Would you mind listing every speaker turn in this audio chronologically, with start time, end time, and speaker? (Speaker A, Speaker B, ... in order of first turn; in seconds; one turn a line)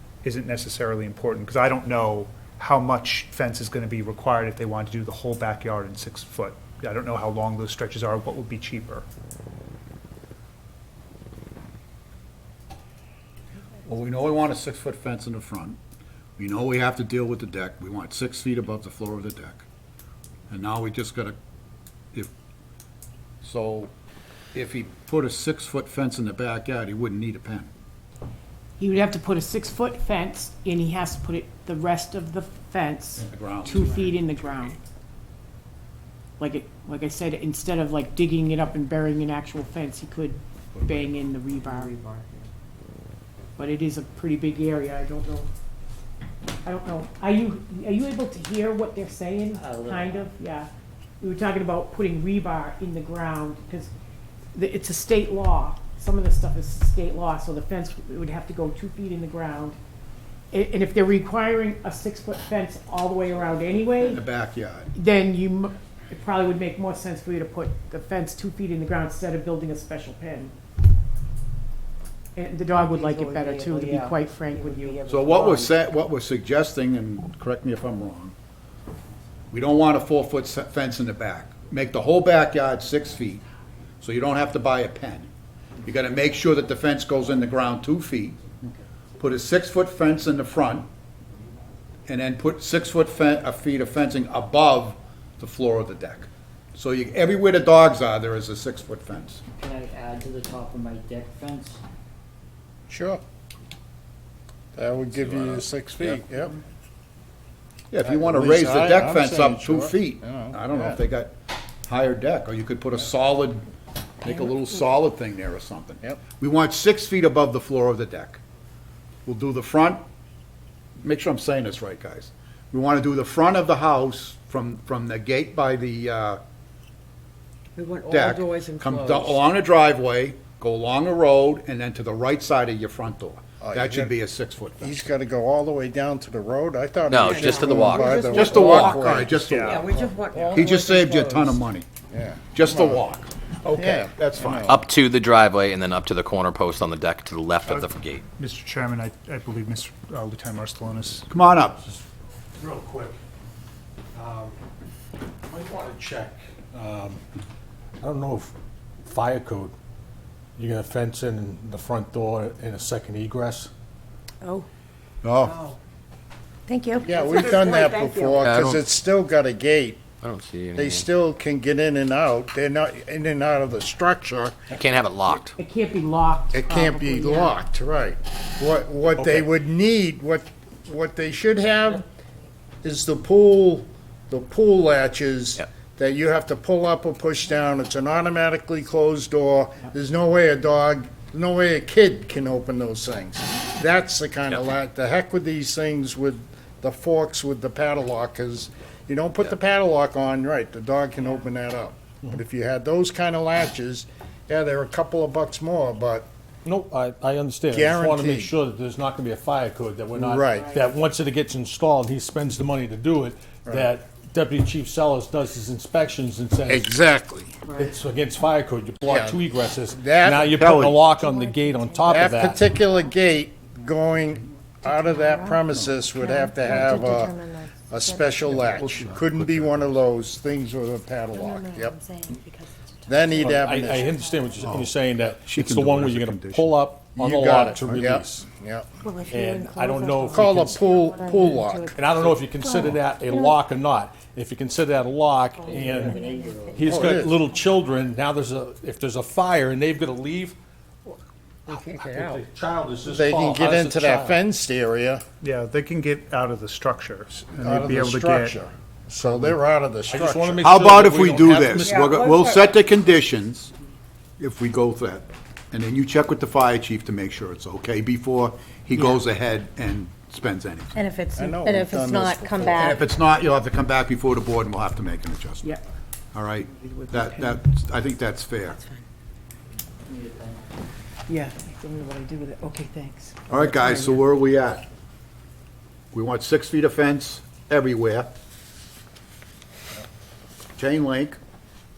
Speaker A: 0.2-9.1
Speaker B: 13.8-15.8
Speaker B: 16.4-19.6
Speaker B: 20.5-21.4
Speaker B: 23.4-23.9
Speaker B: 24.5-27.7
Speaker C: 28.8-34.8
Speaker B: 33.2-34.1
Speaker C: 36.4-41.9
Speaker D: 41.6-42.5
Speaker C: 43.6-45.5
Speaker C: 46.6-50.7
Speaker D: 49.5-50.3
Speaker C: 51.2-53.9
Speaker C: 54.5-59.8
Speaker C: 60.5-64.3
Speaker B: 64.0-64.9
Speaker C: 64.9-70.5
Speaker C: 72.3-75.3
Speaker E: 73.0-74.1
Speaker E: 74.8-75.5
Speaker B: 75.1-78.3
Speaker B: 79.5-83.4
Speaker B: 84.0-85.3
Speaker B: 85.8-88.4
Speaker B: 89.2-90.9
Speaker B: 92.1-99.4
Speaker D: 99.5-101.8
Speaker F: 102.9-103.2
Speaker F: 104.8-106.6
Speaker B: 105.2-106.2
Speaker B: 107.9-111.3
Speaker F: 108.0-111.0
Speaker B: 111.9-113.6
Speaker B: 114.2-118.4
Speaker B: 119.3-120.0
Speaker B: 121.0-126.4
Speaker B: 128.0-135.0
Speaker F: 133.6-134.1
Speaker F: 134.8-140.7
Speaker G: 137.1-138.9
Speaker B: 137.4-139.7
Speaker A: 139.4-139.9
Speaker B: 140.3-141.9
Speaker F: 142.1-143.0
Speaker B: 142.6-144.7
Speaker F: 143.7-144.8
Speaker G: 144.7-148.2
Speaker A: 147.7-151.3
Speaker B: 151.3-151.8
Speaker H: 152.6-153.2
Speaker H: 154.1-154.6
Speaker H: 155.5-157.2
Speaker H: 158.0-159.7
Speaker H: 160.6-163.7
Speaker B: 165.2-165.6
Speaker I: 166.8-167.1
Speaker F: 167.0-170.0
Speaker E: 167.3-168.3
Speaker G: 168.4-168.8
Speaker G: 170.2-171.1
Speaker F: 170.8-174.6
Speaker G: 174.7-175.5
Speaker C: 175.6-177.6
Speaker F: 176.5-182.0
Speaker F: 182.8-206.3
Speaker H: 206.7-216.9
Speaker F: 207.7-208.5
Speaker F: 210.1-210.7
Speaker F: 216.7-217.6
Speaker H: 217.8-222.7
Speaker F: 219.1-220.6
Speaker B: 220.5-221.0
Speaker I: 221.1-222.5
Speaker E: 221.8-222.2
Speaker F: 222.1-227.4
Speaker I: 225.0-225.6
Speaker I: 226.2-227.7
Speaker E: 226.5-227.4
Speaker F: 227.9-232.0
Speaker B: 228.7-229.8
Speaker E: 231.3-232.4
Speaker I: 232.0-234.6
Speaker F: 233.1-234.2
Speaker H: 233.4-238.5
Speaker B: 234.6-234.9
Speaker B: 235.4-236.8
Speaker F: 237.2-238.9
Speaker I: 239.0-241.7
Speaker H: 239.3-240.9
Speaker F: 240.3-242.0
Speaker E: 241.1-242.3
Speaker H: 241.9-250.6
Speaker I: 242.6-243.6
Speaker E: 245.6-246.9
Speaker D: 245.6-246.8
Speaker I: 246.8-247.7
Speaker F: 246.8-247.4
Speaker H: 251.7-254.4
Speaker F: 253.1-255.2
Speaker A: 255.4-258.6
Speaker F: 257.5-261.8
Speaker H: 260.1-262.1
Speaker B: 260.6-263.7
Speaker B: 264.4-271.0
Speaker C: 268.9-269.2
Speaker E: 270.9-273.0
Speaker F: 271.4-273.0
Speaker B: 272.6-275.7
Speaker B: 276.3-278.8
Speaker C: 276.7-277.6
Speaker C: 278.7-279.0
Speaker D: 280.1-280.6
Speaker C: 281.3-284.2
Speaker B: 283.5-284.8
Speaker B: 286.1-288.3
Speaker B: 290.8-291.4